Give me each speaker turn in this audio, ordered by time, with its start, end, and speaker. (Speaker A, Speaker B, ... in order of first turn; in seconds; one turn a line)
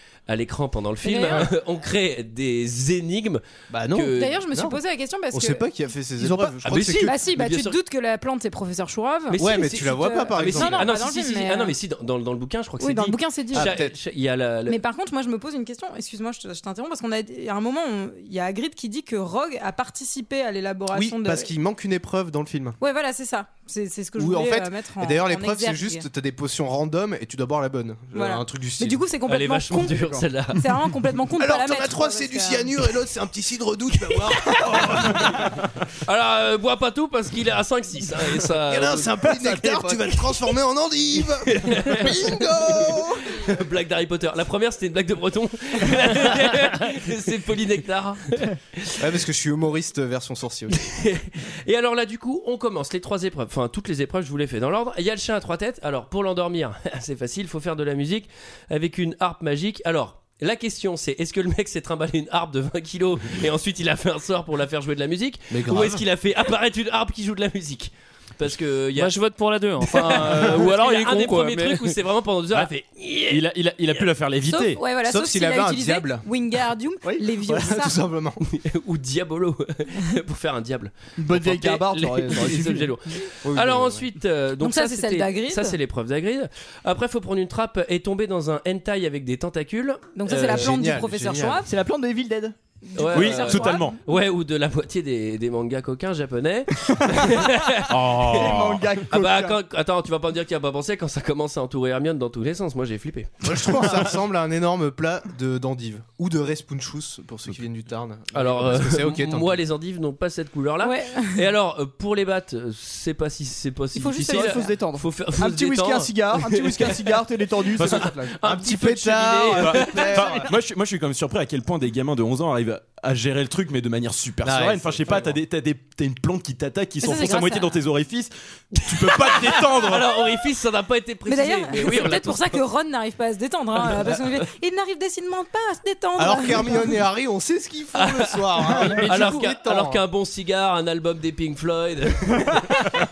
Speaker A: 0.3-4.4
Speaker B: 1.0-1.5
Speaker C: 3.7-4.8
Speaker B: 4.0-5.6
Speaker C: 5.3-7.2
Speaker D: 6.2-6.6
Speaker A: 6.6-7.8
Speaker B: 6.8-11.8
Speaker A: 9.3-14.8
Speaker C: 9.4-10.9
Speaker B: 12.8-13.8
Speaker C: 13.5-13.9
Speaker B: 14.7-21.5
Speaker C: 20.9-22.8
Speaker B: 22.8-26.1
Speaker C: 24.2-29.0
Speaker B: 28.1-32.7
Speaker A: 29.3-30.7
Speaker C: 31.4-35.6
Speaker A: 36.0-39.2
Speaker C: 38.7-43.5
Speaker D: 39.3-40.0
Speaker A: 41.5-49.0
Speaker C: 49.0-50.8
Speaker A: 50.7-69.1
Speaker C: 65.5-66.0
Speaker E: 69.0-72.0
Speaker A: 69.8-74.1
Speaker F: 73.3-74.8
Speaker B: 74.5-78.0
Speaker C: 75.0-76.3
Speaker C: 77.4-78.4
Speaker A: 78.5-90.7
Speaker D: 81.2-83.0
Speaker C: 83.4-84.1
Speaker B: 84.6-85.8
Speaker B: 90.2-91.7
Speaker C: 90.3-91.6
Speaker D: 91.7-92.6
Speaker B: 92.8-93.9
Speaker A: 93.0-103.4
Speaker F: 93.1-94.0
Speaker F: 97.9-98.8
Speaker D: 98.1-99.6
Speaker C: 103.4-109.6
Speaker A: 108.3-117.2
Speaker B: 110.8-111.4
Speaker D: 114.0-118.4
Speaker B: 114.3-114.5
Speaker A: 117.8-120.3
Speaker F: 117.8-118.1
Speaker C: 118.4-120.5
Speaker F: 119.6-130.1
Speaker C: 124.4-125.4
Speaker B: 127.0-127.8
Speaker A: 129.1-132.6
Speaker B: 131.3-137.0
Speaker A: 133.8-134.1
Speaker C: 136.2-140.1
Speaker A: 137.9-142.8